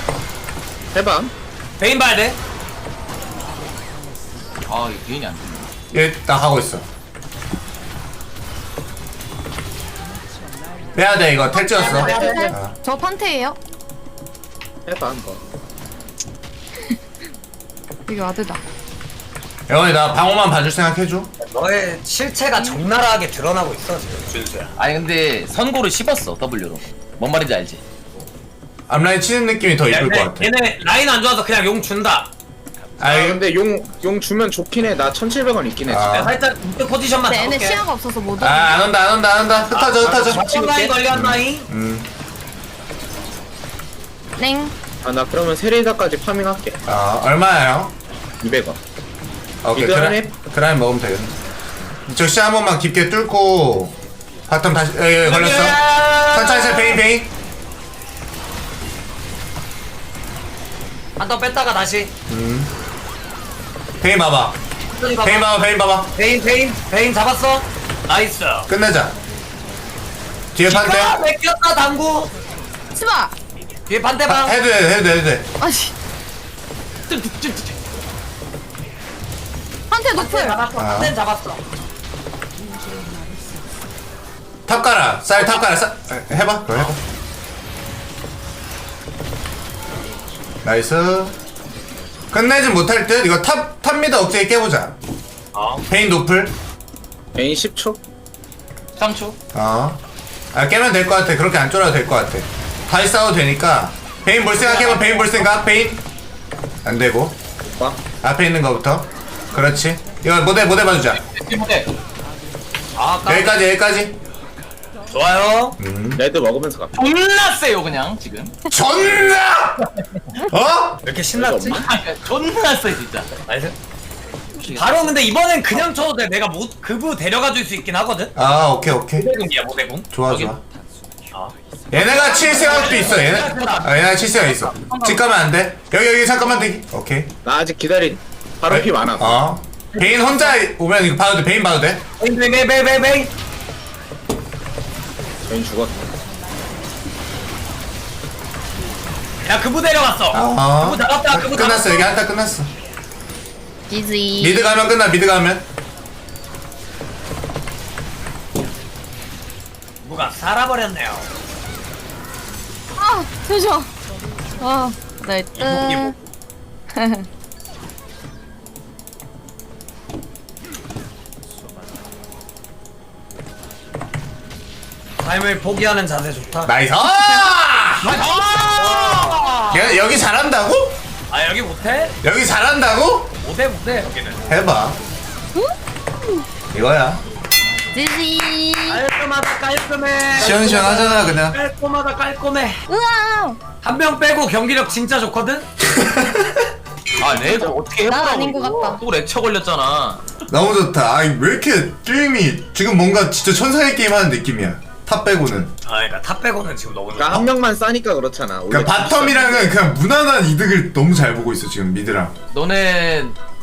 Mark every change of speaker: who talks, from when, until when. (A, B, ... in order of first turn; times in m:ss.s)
0:00.9-0:01.3 A
0:01.8-0:02.4 B
0:04.7-0:05.7 C
0:05.9-0:06.8 D
0:10.9-0:12.7 D
0:11.6-0:12.6 B
0:11.7-0:13.6 E
0:14.8-0:15.4 A
0:18.1-0:18.6 E
0:19.7-0:21.3 D
0:21.4-0:24.7 B
0:24.8-0:27.8 C
0:28.9-0:30.5 D
0:29.9-0:32.3 B
0:33.0-0:33.4 D
0:33.0-0:36.1 A
0:35.9-0:36.3 D
0:36.1-0:37.8 B
0:37.3-0:38.8 E
0:38.4-0:40.5 D
0:39.7-0:41.7 B
0:40.0-0:41.0 A
0:41.1-0:42.1 D
0:44.4-0:44.7 E
0:45.0-0:46.8 A
0:46.8-0:47.9 D
0:48.4-0:48.8 A
0:49.6-0:51.4 D
0:49.8-0:50.2 A
0:52.1-0:53.9 D
0:54.5-0:57.3 D
0:55.2-0:57.0 B
1:01.2-1:02.1 B
1:02.3-1:02.7 D
1:04.0-1:04.6 D
1:04.9-1:05.5 B
1:05.2-1:06.1 D
1:06.1-1:08.7 B
1:08.7-1:09.2 D
1:10.5-1:11.2 D
1:10.6-1:12.3 B
1:12.9-1:13.3 E
1:13.9-1:14.6 B
1:14.2-1:15.5 D
1:15.6-1:15.9 E
1:17.1-1:17.8 C
1:19.9-1:20.6 E
1:20.2-1:21.6 B
1:20.8-1:21.1 D
1:24.7-1:27.0 D
1:30.6-1:31.3 D
1:32.3-1:35.0 D
1:35.5-1:35.8 B
1:35.9-1:36.5 D
1:37.3-1:38.0 A
1:39.0-1:39.4 C
1:39.5-1:40.0 D
1:40.5-1:46.0 D
1:44.6-1:45.5 B
1:46.8-1:47.4 D
1:47.6-1:48.0 A
1:48.2-1:51.2 D
1:51.2-1:51.9 C
1:53.0-1:53.6 B
1:53.3-1:54.2 D
1:55.1-1:55.8 B
1:55.8-1:56.2 D
1:56.1-1:56.9 A
1:56.9-1:58.6 C
1:58.7-1:59.9 D
2:00.4-2:01.0 D
2:01.0-2:01.9 B
2:01.3-2:01.9 A
2:01.8-2:03.3 C
2:03.4-2:03.7 B
2:04.6-2:05.2 C
2:04.7-2:08.3 B
2:08.4-2:09.3 D
2:09.2-2:10.0 B
2:10.1-2:10.6 D
2:10.3-2:10.5 C
2:11.3-2:14.1 B
2:11.9-2:17.3 D
2:14.3-2:15.2 C
2:17.4-2:19.4 A
2:18.7-2:22.0 D
2:19.9-2:20.6 B
2:22.2-2:23.3 B
2:25.4-2:26.0 A
2:29.4-2:32.1 B
2:30.3-2:32.7 D
2:33.9-2:34.7 E
2:34.4-2:35.6 D
2:40.0-2:41.3 B
2:43.0-2:43.9 E
2:44.6-2:46.1 E
2:45.6-2:46.2 B
2:46.9-2:47.2 E
2:55.2-2:56.7 B
2:56.6-2:58.2 D
2:58.1-3:00.0 B
2:58.1-2:59.3 C
2:59.7-3:01.0 D
3:01.3-3:02.2 B
3:02.2-3:03.3 D
3:03.4-3:04.4 B
3:04.5-3:05.0 D
3:06.7-3:07.2 D
3:07.9-3:09.0 E
3:08.9-3:12.8 B
3:10.3-3:11.6 D
3:12.9-3:13.6 E
3:13.8-3:15.6 B
3:15.8-3:16.6 D
3:17.2-3:20.2 C
3:17.4-3:17.8 A
3:18.0-3:19.0 E
3:20.5-3:25.7 D
3:25.8-3:27.5 B
3:27.2-3:29.8 A
3:28.7-3:32.3 D
3:32.5-3:33.4 C